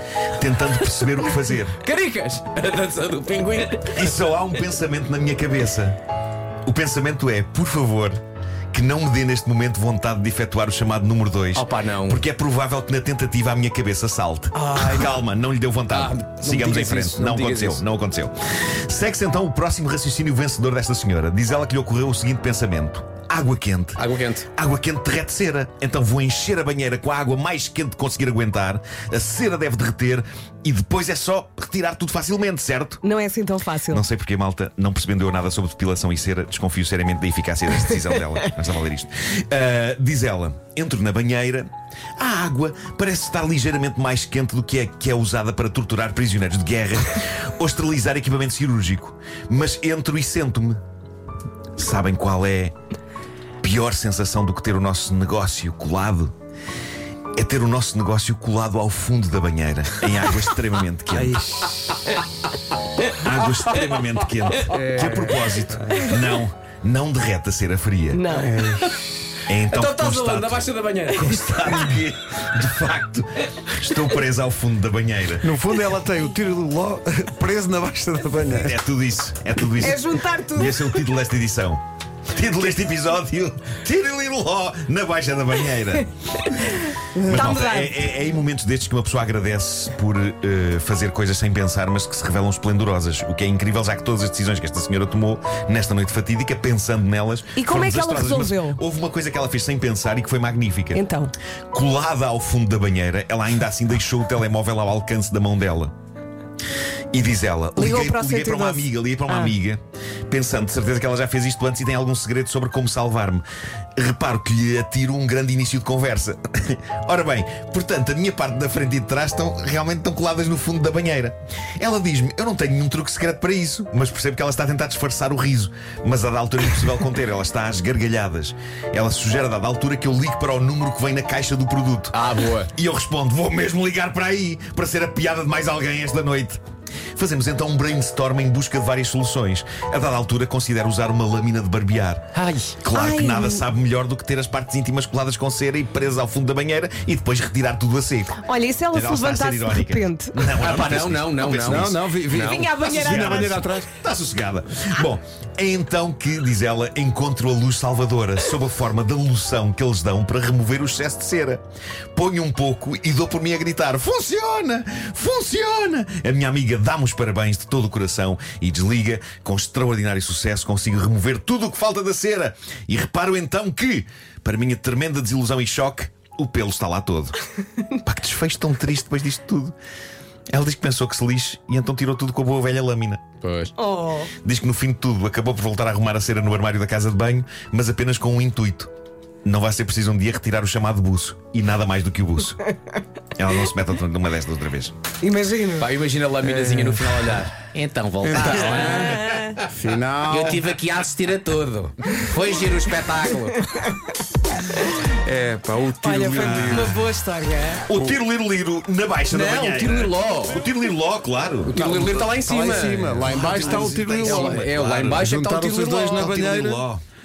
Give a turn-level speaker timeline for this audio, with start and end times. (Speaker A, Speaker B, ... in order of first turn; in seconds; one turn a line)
Speaker A: 0.3-1.8
Speaker B: 1.8-4.1
Speaker A: 3.9-6.0
Speaker A: 6.7-8.2
Speaker A: 8.7-24.0
Speaker B: 11.5-12.2
Speaker B: 14.5-15.2
Speaker B: 15.9-17.8
Speaker B: 23.9-24.5
Speaker A: 24.5-33.0
Speaker C: 33.0-34.0
Speaker A: 33.9-50.8
Speaker A: 51.8-52.7
Speaker A: 53.6-56.3
Speaker A: 57.4-61.5
Speaker D: 61.1-61.7
Speaker A: 63.2-68.2
Speaker D: 64.8-65.4
Speaker C: 68.1-68.7
Speaker D: 68.3-68.9
Speaker A: 69.5-75.5
Speaker B: 69.7-71.7
Speaker D: 75.4-78.8
Speaker A: 78.5-86.1
Speaker C: 79.8-81.0
Speaker C: 86.5-88.0
Speaker A: 87.2-101.0
Speaker C: 97.5-98.8
Speaker C: 100.9-101.3
Speaker A: 101.7-105.9
Speaker A: 107.1-113.4
Speaker C: 107.8-109.5
Speaker A: 114.0-136.6
Speaker B: 132.1-132.7
Speaker A: 137.2-142.2
Speaker B: 142.3-142.8
Speaker A: 142.8-152.1
Speaker C: 142.9-143.6
Speaker C: 148.4-150.3
Speaker B: 150.3-153.6
Speaker D: 151.6-153.9
Speaker C: 152.3-153.8
Speaker A: 153.0-161.6
Speaker A: 162.1-177.3
Speaker A: 178.0-179.7
Speaker A: 180.5-183.2
Speaker B: 183.4-183.7
Speaker C: 183.8-184.3
Speaker A: 184.4-188.9
Speaker A: 189.4-192.6
Speaker A: 193.3-194.9
Speaker C: 195.2-195.9
Speaker B: 195.8-199.6
Speaker D: 196.4-197.3
Speaker D: 198.2-199.0
Speaker C: 198.8-199.5
Speaker D: 199.7-200.6
Speaker B: 200.3-203.6
Speaker D: 205.2-207.0
Speaker C: 206.0-207.8
Speaker A: 206.4-206.9
Speaker A: 207.9-211.8
Speaker D: 207.9-208.2
Speaker B: 209.3-210.6
Speaker B: 211.7-216.3
Speaker D: 211.7-216.9
Speaker A: 213.2-215.3
Speaker A: 216.1-217.0